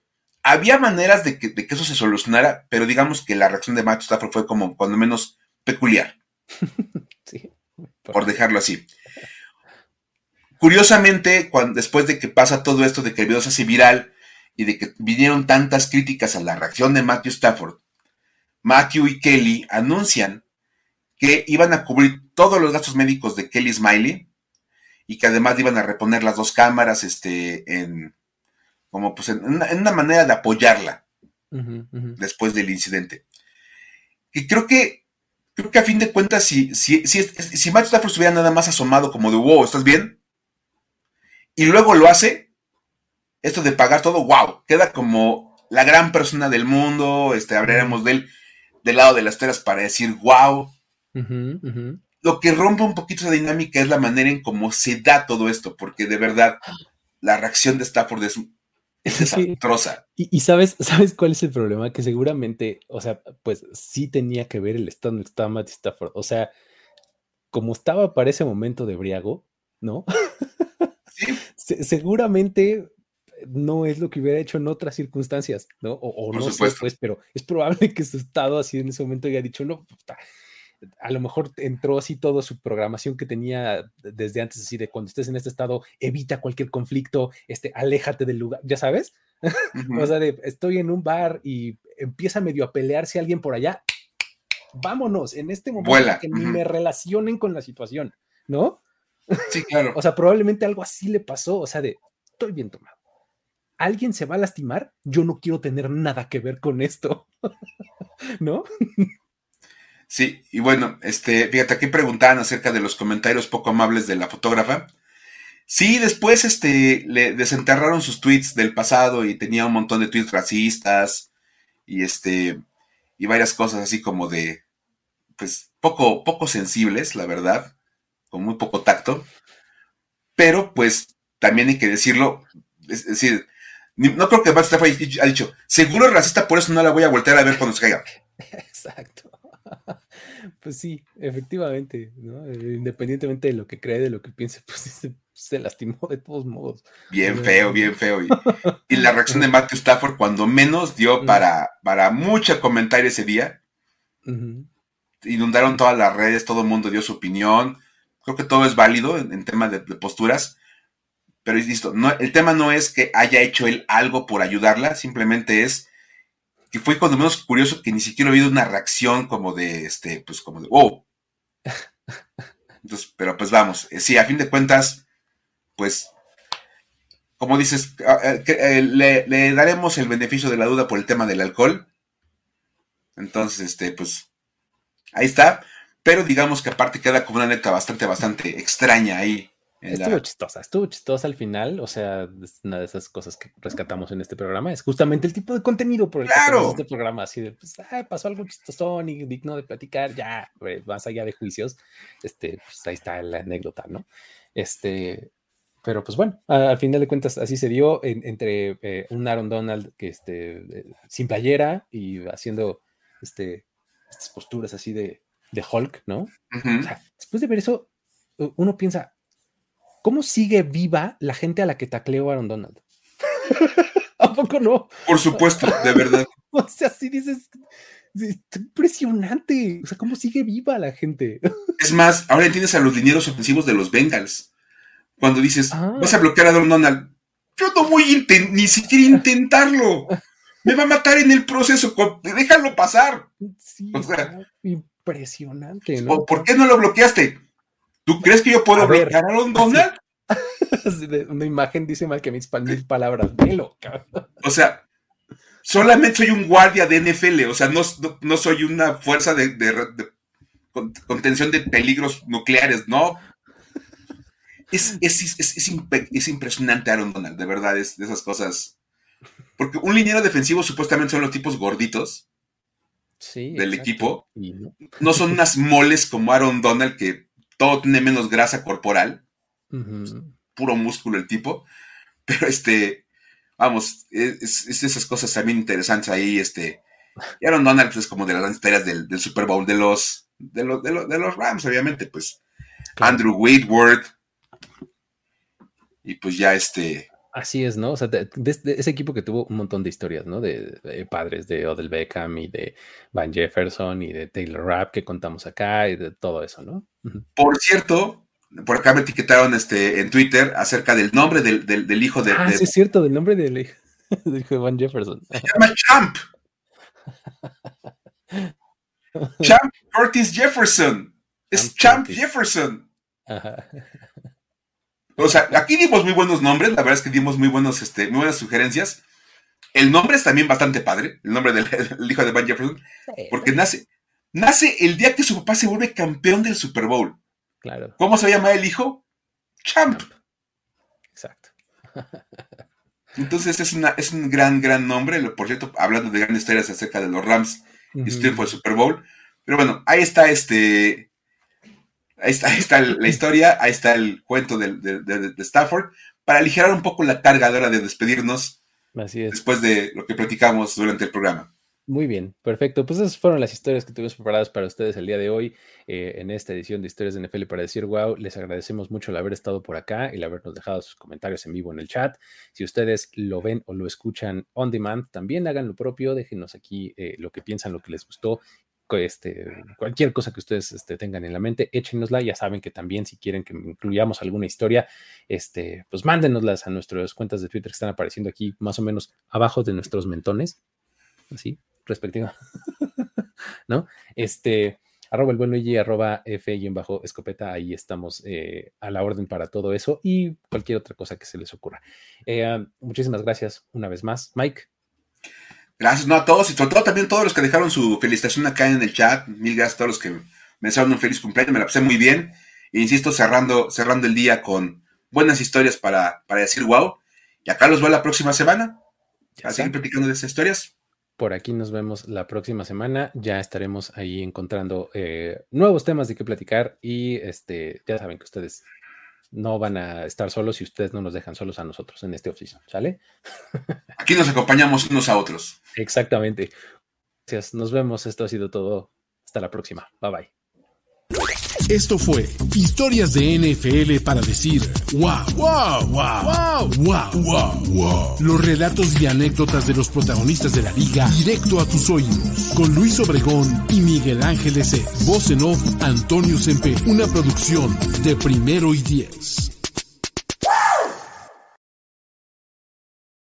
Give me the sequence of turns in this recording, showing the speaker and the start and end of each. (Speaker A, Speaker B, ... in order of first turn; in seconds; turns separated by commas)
Speaker A: 0.4-6.2, Speaker B: 6.6-8.3, Speaker A: 8.1-8.9, Speaker A: 10.6-17.8, Speaker A: 18.6-20.4, Speaker A: 21.2-24.3, Speaker A: 25.1-28.1, Speaker A: 28.9-31.0, Speaker B: 31.5-32.2, Speaker A: 32.2-33.2, Speaker A: 34.3-35.0, Speaker A: 35.6-40.2, Speaker A: 41.6-42.5, Speaker A: 43.4-48.3, Speaker B: 47.7-48.0, Speaker A: 48.8-50.7, Speaker B: 51.1-52.0, Speaker A: 52.2-56.6, Speaker A: 57.2-58.5, Speaker B: 59.1-59.6, Speaker A: 59.1-60.0, Speaker B: 60.2-66.5, Speaker B: 67.5-70.9, Speaker A: 71.2-71.4, Speaker B: 71.5-80.2, Speaker A: 76.3-76.9, Speaker B: 81.0-93.8, Speaker A: 89.7-90.1, Speaker B: 94.8-98.8, Speaker A: 95.8-96.6, Speaker B: 99.3-102.9, Speaker A: 99.5-100.0, Speaker B: 103.8-107.3, Speaker B: 108.4-109.1, Speaker A: 110.1-114.9, Speaker A: 115.7-121.3, Speaker A: 121.9-122.6, Speaker A: 123.2-124.6, Speaker A: 125.4-127.7, Speaker A: 128.3-129.3, Speaker A: 130.4-138.0, Speaker B: 138.4-148.8, Speaker A: 147.1-153.6, Speaker B: 154.3-154.7, Speaker A: 155.2-160.6, Speaker A: 161.4-165.9, Speaker A: 166.7-171.0, Speaker A: 172.8-175.0, Speaker A: 175.8-176.1, Speaker A: 177.4-181.9, Speaker A: 183.2-184.3, Speaker A: 185.1-190.2, Speaker B: 189.9-205.3, Speaker A: 196.3-196.8, Speaker B: 205.8-217.9, Speaker A: 216.5-216.9, Speaker B: 218.4-219.1, Speaker B: 220.0-222.8, Speaker B: 223.3-225.9, Speaker A: 225.1-226.3, Speaker B: 226.5-227.6, Speaker B: 228.1-231.6, Speaker A: 231.8-234.5, Speaker A: 235.2-240.1, Speaker B: 235.7-236.2, Speaker A: 240.7-243.3, Speaker B: 243.4-246.4, Speaker A: 243.9-244.3, Speaker A: 246.0-247.4, Speaker A: 248.1-250.0, Speaker B: 248.7-254.2, Speaker A: 254.4-254.8, Speaker A: 255.7-260.1, Speaker A: 260.7-263.2, Speaker A: 264.7-268.7, Speaker A: 269.6-272.2, Speaker B: 273.2-275.4, Speaker A: 273.6-274.2, Speaker A: 275.0-279.2, Speaker B: 279.7-280.3, Speaker A: 280.6-281.7, Speaker A: 282.3-283.0, Speaker A: 283.6-286.8, Speaker A: 287.4-292.4, Speaker B: 293.0-293.2, Speaker A: 293.0-294.1, Speaker A: 296.0-297.1, Speaker B: 297.3-307.3, Speaker A: 307.4-312.7, Speaker B: 312.3-315.6, Speaker A: 315.4-316.2, Speaker B: 319.2-319.5, Speaker A: 319.4-322.9, Speaker B: 321.5-322.2, Speaker B: 323.3-324.0, Speaker A: 325.2-329.0, Speaker A: 329.7-337.2, Speaker B: 333.1-333.5, Speaker B: 337.6-338.0, Speaker A: 338.0-339.0, Speaker A: 339.6-340.1, Speaker B: 341.1-342.5, Speaker A: 343.2-351.1, Speaker B: 347.9-348.5, Speaker A: 352.2-358.6, Speaker B: 358.9-359.4, Speaker A: 359.3-361.5, Speaker B: 361.9-390.6, Speaker B: 391.3-404.7, Speaker A: 405.8-418.8, Speaker B: 419.4-419.8, Speaker A: 419.4-420.7, Speaker B: 421.2-428.6, Speaker B: 429.3-433.0, Speaker A: 434.0-435.6, Speaker B: 435.8-436.5, Speaker B: 437.3-440.3, Speaker C: 441.7-459.5